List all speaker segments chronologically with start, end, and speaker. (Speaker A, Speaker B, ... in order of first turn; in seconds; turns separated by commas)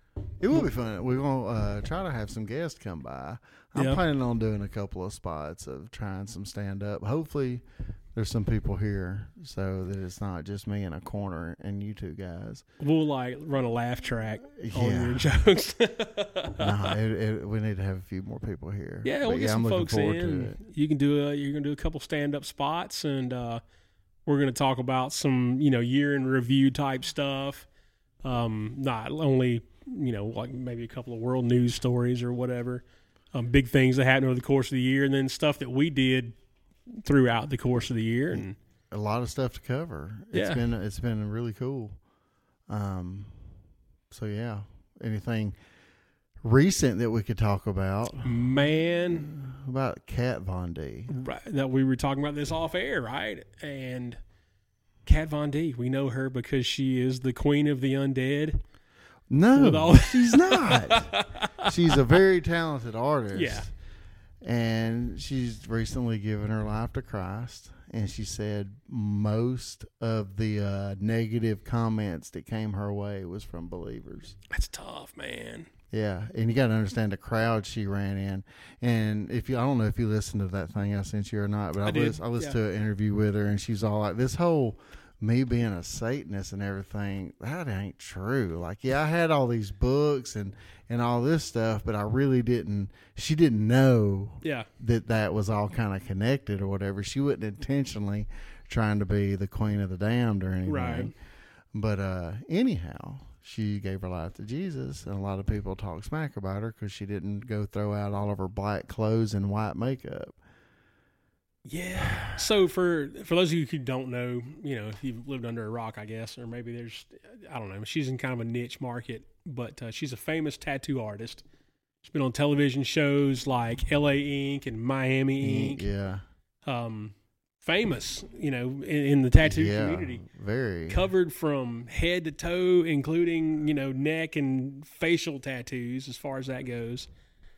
Speaker A: 0.4-7.6, Speaker B: 3.8-4.0, Speaker A: 8.1-12.6, Speaker B: 12.8-16.9, Speaker A: 14.6-15.3, Speaker A: 16.6-20.6, Speaker B: 19.0-23.6, Speaker B: 24.2-27.7, Speaker B: 28.2-36.3, Speaker B: 37.0-38.6, Speaker A: 38.9-42.0, Speaker B: 40.3-40.6, Speaker A: 42.7-43.4, Speaker A: 44.1-45.5, Speaker A: 46.4-51.1, Speaker B: 48.2-49.3, Speaker B: 51.1-54.2, Speaker B: 55.0-58.6, Speaker A: 59.3-61.1, Speaker B: 59.5-62.0, Speaker A: 61.6-63.7, Speaker B: 63.3-63.7, Speaker A: 64.4-74.4, Speaker B: 74.5-75.7, Speaker A: 75.9-101.1, Speaker B: 81.8-82.6, Speaker B: 94.4-94.7, Speaker B: 100.7-101.1, Speaker A: 101.7-110.3, Speaker B: 111.7-121.4, Speaker A: 112.1-112.4, Speaker B: 122.0-125.8, Speaker A: 125.4-126.2, Speaker B: 126.7-130.2, Speaker A: 129.4-131.0, Speaker B: 130.9-137.1